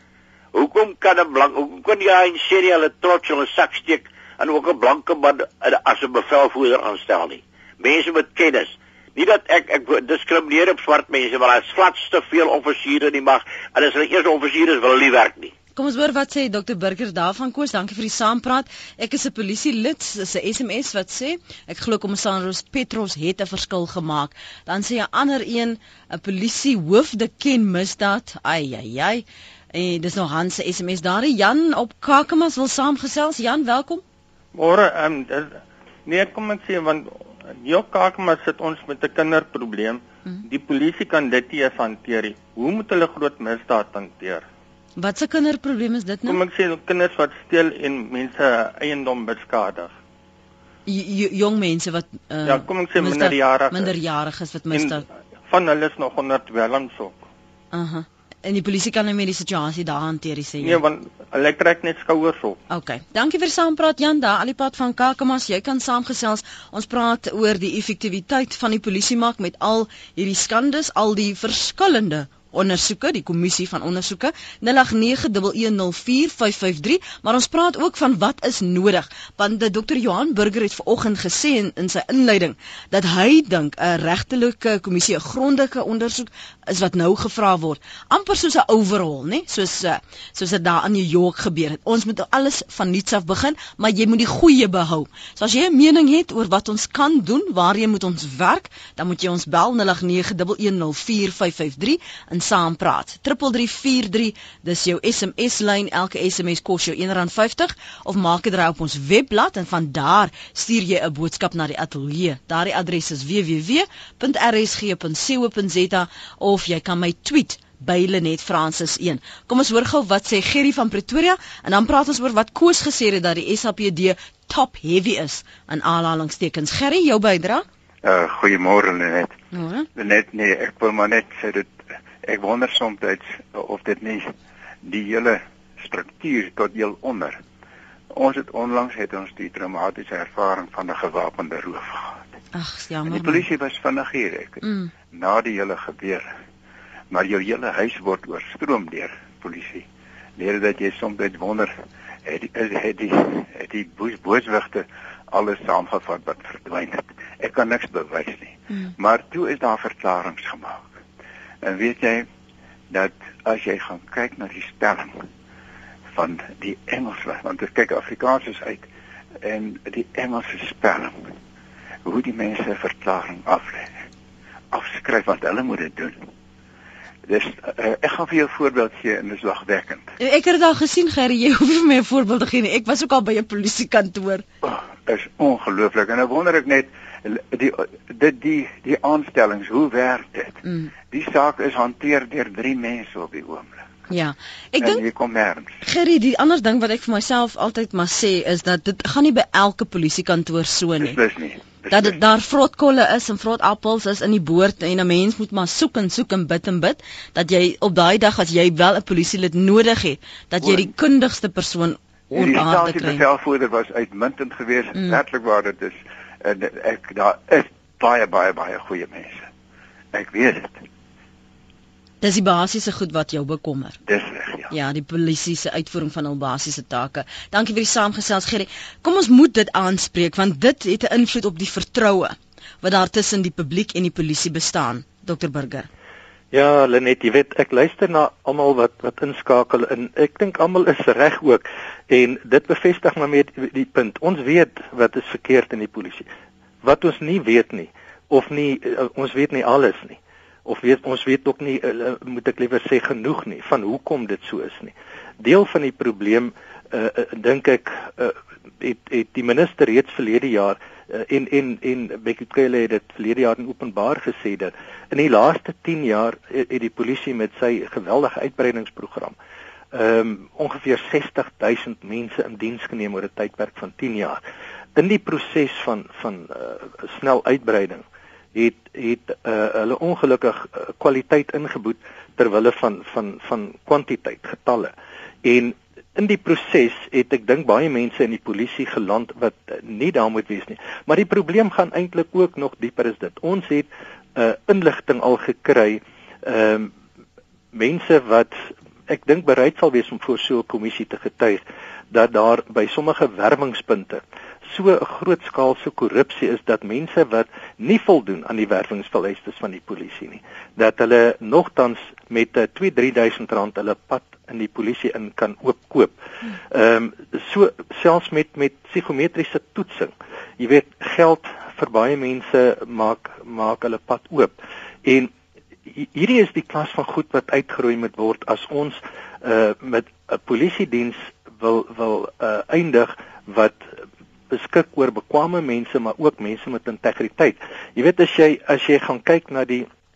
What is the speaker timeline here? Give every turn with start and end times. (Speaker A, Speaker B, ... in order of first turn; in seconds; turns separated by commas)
Speaker A: 0.5-15.5, Speaker B: 15.7-34.0, Speaker C: 34.5-44.4, Speaker B: 45.0-46.4, Speaker C: 46.2-49.9, Speaker B: 50.9-55.0, Speaker C: 52.5-53.9, Speaker C: 54.7-57.2, Speaker B: 57.7-60.8, Speaker C: 60.6-62.6, Speaker B: 62.7-127.7, Speaker D: 128.0-129.3, Speaker B: 129.5-129.9, Speaker D: 129.9-134.3, Speaker D: 134.8-137.4, Speaker D: 138.1-142.3, Speaker B: 142.5-143.4, Speaker D: 143.1-146.3, Speaker B: 144.6-144.9, Speaker D: 147.1-149.8, Speaker D: 150.4-151.7, Speaker D: 152.2-160.9, Speaker D: 161.6-162.3, Speaker D: 162.9-165.2, Speaker D: 166.1-168.9, Speaker D: 169.4-171.3, Speaker D: 172.0-174.0, Speaker D: 174.7-176.2, Speaker D: 177.3-180.1, Speaker B: 180.2-184.4, Speaker D: 184.6-193.8, Speaker B: 190.6-190.9, Speaker B: 194.1-195.0, Speaker D: 194.8-195.8, Speaker B: 195.8-201.2, Speaker D: 201.0-202.2, Speaker B: 201.9-213.2, Speaker D: 210.6-210.9, Speaker D: 212.3-219.5, Speaker D: 220.1-220.8, Speaker B: 222.2-224.0, Speaker D: 224.1-224.7, Speaker B: 224.7-235.9, Speaker E: 236.5-246.3, Speaker E: 246.8-269.4, Speaker E: 269.9-274.4, Speaker E: 274.9-284.9, Speaker E: 285.4-296.9, Speaker E: 297.7-298.5, Speaker E: 299.1-325.3, Speaker E: 325.9-333.9, Speaker E: 334.5-339.9